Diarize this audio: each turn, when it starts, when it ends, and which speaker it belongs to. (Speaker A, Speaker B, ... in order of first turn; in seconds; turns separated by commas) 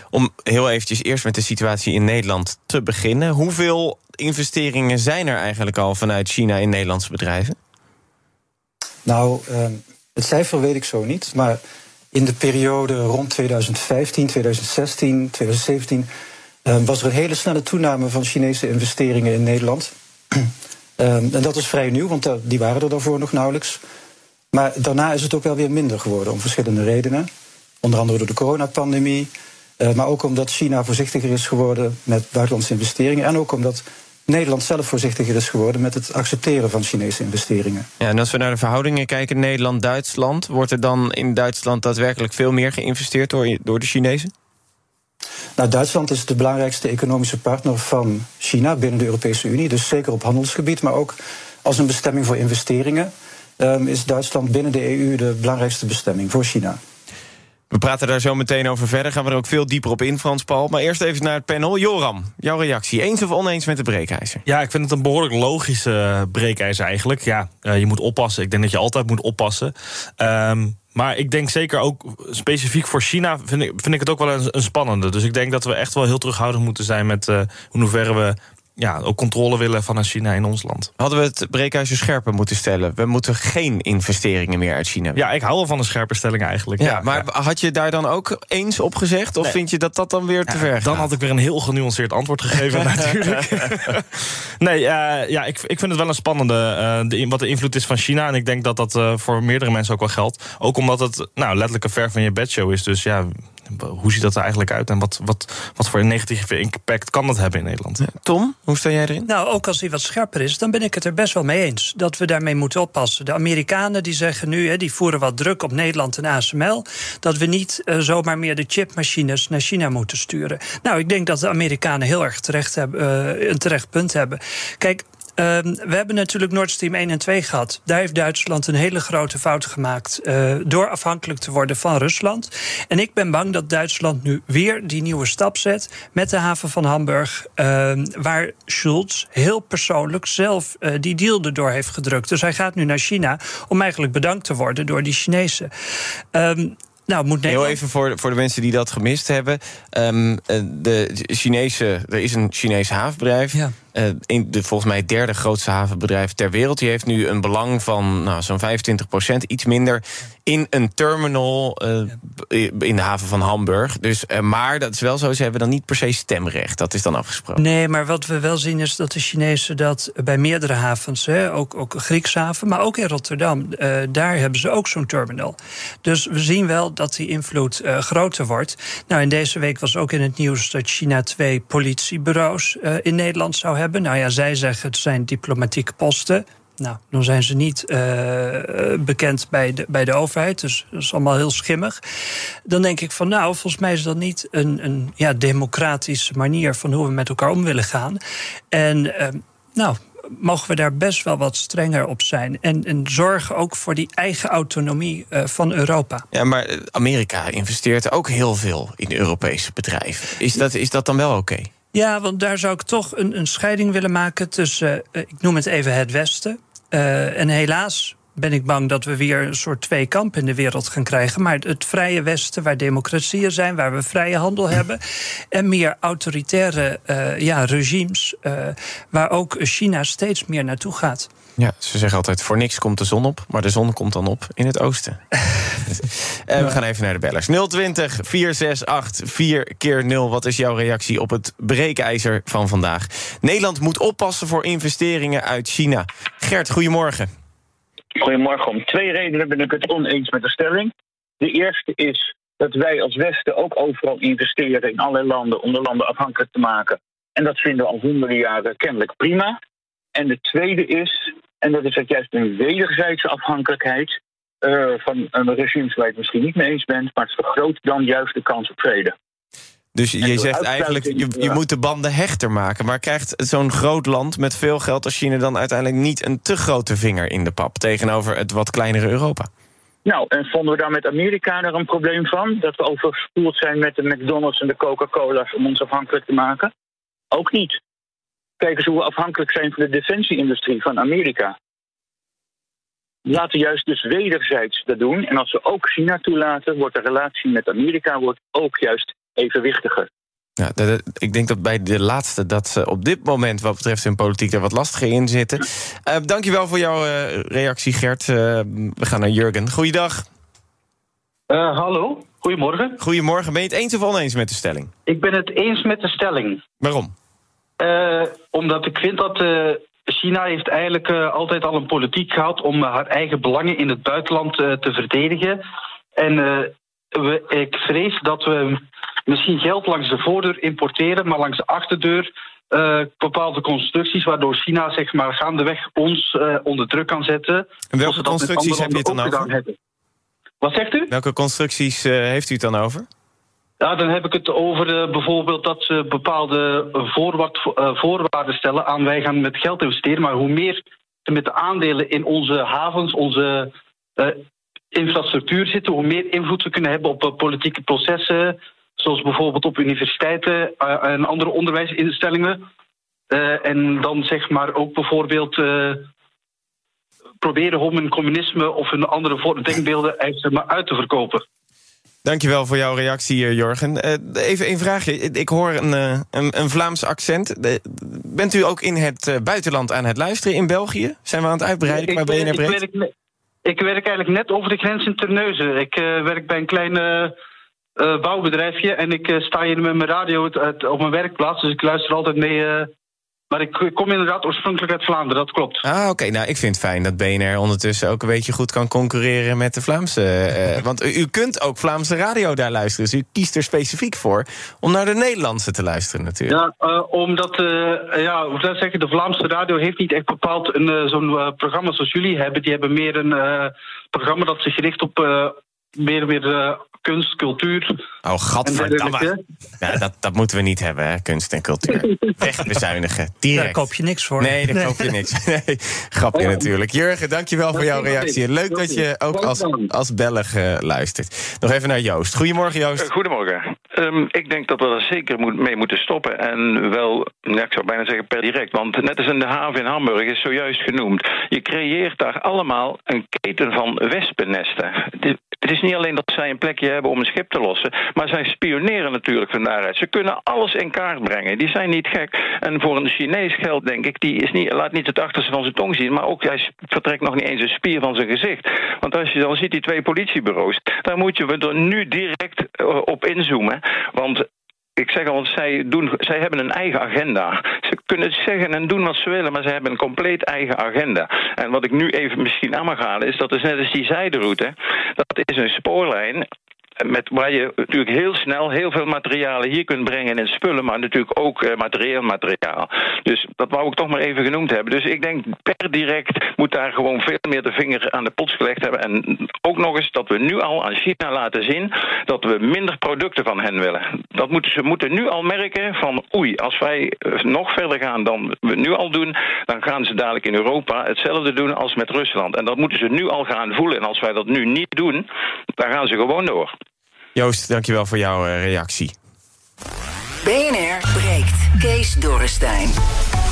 Speaker A: 0.1-7.6, Speaker B: 9.1-11.6, Speaker B: 12.1-16.1, Speaker B: 16.7-23.8, Speaker B: 24.5-27.3, Speaker B: 27.8-37.9, Speaker A: 38.0-44.3, Speaker B: 45.6-56.8, Speaker A: 57.7-64.4, Speaker C: 64.5-80.9, Speaker A: 81.0-85.2, Speaker C: 85.2-87.2, Speaker A: 86.8-91.1, Speaker C: 90.5-108.0, Speaker A: 92.8-93.0, Speaker A: 108.0-109.3, Speaker D: 109.3-145.7, Speaker D: 146.3-147.8, Speaker A: 147.5-167.6, Speaker D: 167.6-192.0, Speaker D: 192.7-198.2, Speaker D: 198.7-206.2, Speaker A: 206.3-211.7, Speaker D: 211.9-225.0, Speaker D: 225.5-231.3, Speaker A: 231.6-235.2, Speaker A: 235.9-247.3, Speaker E: 248.2-259.6, Speaker E: 260.1-269.1, Speaker A: 269.9-279.5, Speaker E: 270.2-271.6, Speaker E: 280.1-286.7, Speaker E: 287.3-287.8, Speaker E: 288.6-291.5, Speaker E: 293.3-300.1, Speaker A: 300.6-310.3, Speaker F: 311.5-313.0, Speaker A: 313.0-314.9, Speaker F: 315.1-316.6, Speaker A: 316.8-317.1, Speaker F: 317.8-325.6, Speaker F: 326.2-339.7, Speaker A: 337.9-339.5, Speaker F: 340.6-341.1, Speaker A: 341.1-343.1, Speaker F: 343.8-362.6, Speaker F: 363.3-366.1, Speaker F: 367.4-371.4, Speaker A: 372.2-382.8, Speaker F: 381.9-383.1, Speaker F: 383.6-387.3, Speaker F: 388.0-392.9, Speaker F: 393.5-395.8, Speaker A: 395.8-406.6, Speaker F: 406.5-417.9, Speaker A: 418.2-433.1, Speaker F: 418.6-419.4, Speaker D: 423.5-425.1, Speaker F: 426.4-426.6, Speaker F: 427.7-429.9, Speaker G: 433.0-464.4, Speaker G: 465.0-476.5, Speaker G: 477.0-505.3, Speaker G: 505.8-506.7, Speaker A: 507.4-509.1, Speaker H: 510.4-513.0